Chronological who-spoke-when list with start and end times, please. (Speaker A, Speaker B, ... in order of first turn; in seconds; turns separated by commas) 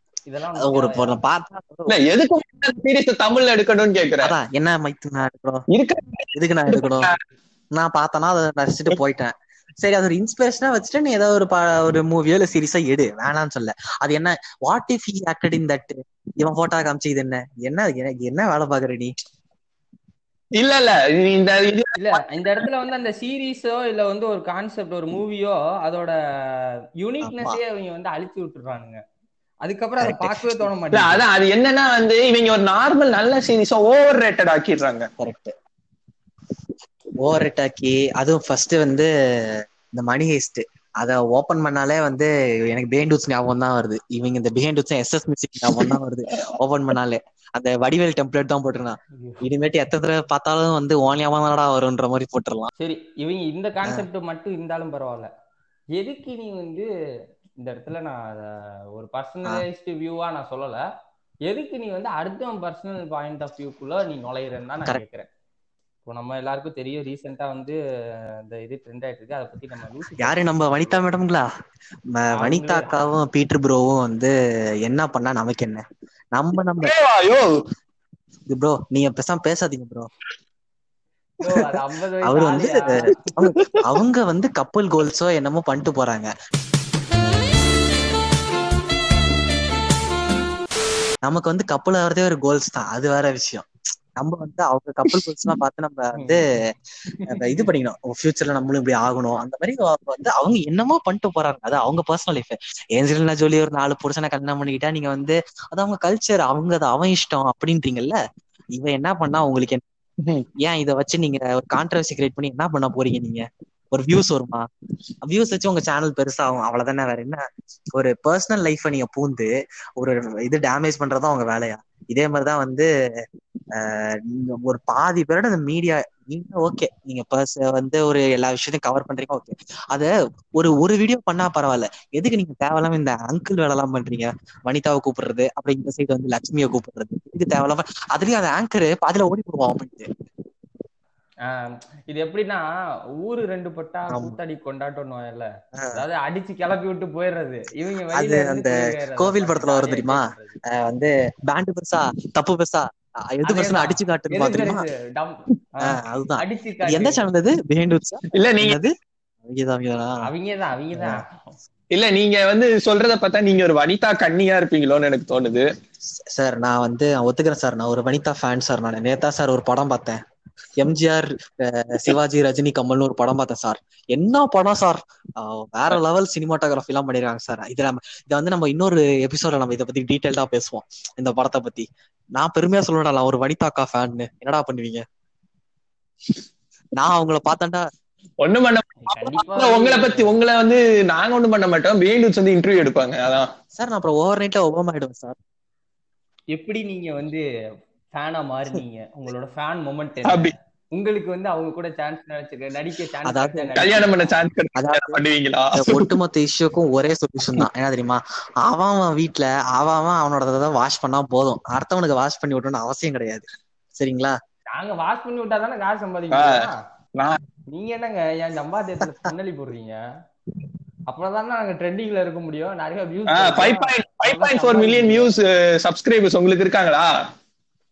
Speaker A: 0.3-1.1, Speaker B: 0.6-1.9, Speaker C: 1.9-4.3, Speaker B: 4.2-5.7, Speaker C: 5.7-7.2, Speaker B: 6.3-7.1, Speaker B: 7.8-19.1, Speaker C: 20.6-22.2, Speaker A: 22.0-26.1, Speaker A: 27.0-29.0, Speaker B: 27.2-27.6, Speaker A: 29.6-31.2, Speaker B: 30.0-30.7, Speaker C: 30.9-35.1, Speaker B: 35.2-35.5, Speaker B: 37.2-52.7, Speaker A: 49.2-49.4, Speaker A: 52.8-55.3, Speaker A: 56.0-56.9, Speaker A: 57.6-58.2, Speaker A: 59.0-60.8, Speaker A: 61.5-65.3, Speaker A: 66.1-67.8, Speaker A: 68.5-71.0, Speaker B: 70.2-71.5, Speaker B: 72.2-74.3, Speaker A: 72.4-73.0, Speaker B: 74.8-76.9, Speaker C: 76.8-77.6, Speaker B: 78.5-80.1, Speaker A: 81.4-82.9, Speaker B: 81.5-86.3, Speaker C: 83.4-83.8, Speaker B: 91.2-96.5, Speaker A: 96.2-96.4, Speaker A: 97.1-97.7, Speaker B: 97.3-108.2, Speaker B: 108.8-109.8, Speaker B: 110.6-114.7, Speaker B: 115.2-122.9, Speaker B: 123.8-140.1, Speaker A: 141.5-142.6, Speaker A: 143.2-150.6, Speaker B: 144.1-144.4, Speaker B: 148.1-154.9, Speaker A: 153.4-157.2, Speaker B: 155.8-158.9, Speaker C: 158.3-158.8, Speaker B: 159.4-160.2, Speaker A: 160.2-161.6, Speaker C: 161.9-165.7, Speaker B: 166.3-170.2, Speaker B: 170.8-185.1, Speaker B: 187.0-187.9, Speaker C: 188.4-193.5, Speaker A: 189.1-190.3, Speaker B: 193.8-195.4, Speaker A: 196.5-197.4, Speaker A: 198.2-204.1, Speaker C: 200.2-200.5, Speaker B: 203.3-203.8, Speaker C: 203.8-206.1, Speaker B: 204.8-205.2, Speaker B: 205.8-213.5, Speaker B: 214.0-214.4, Speaker A: 214.7-216.7, Speaker C: 216.3-216.7, Speaker A: 217.7-220.0, Speaker A: 221.1-225.3, Speaker C: 223.3-227.1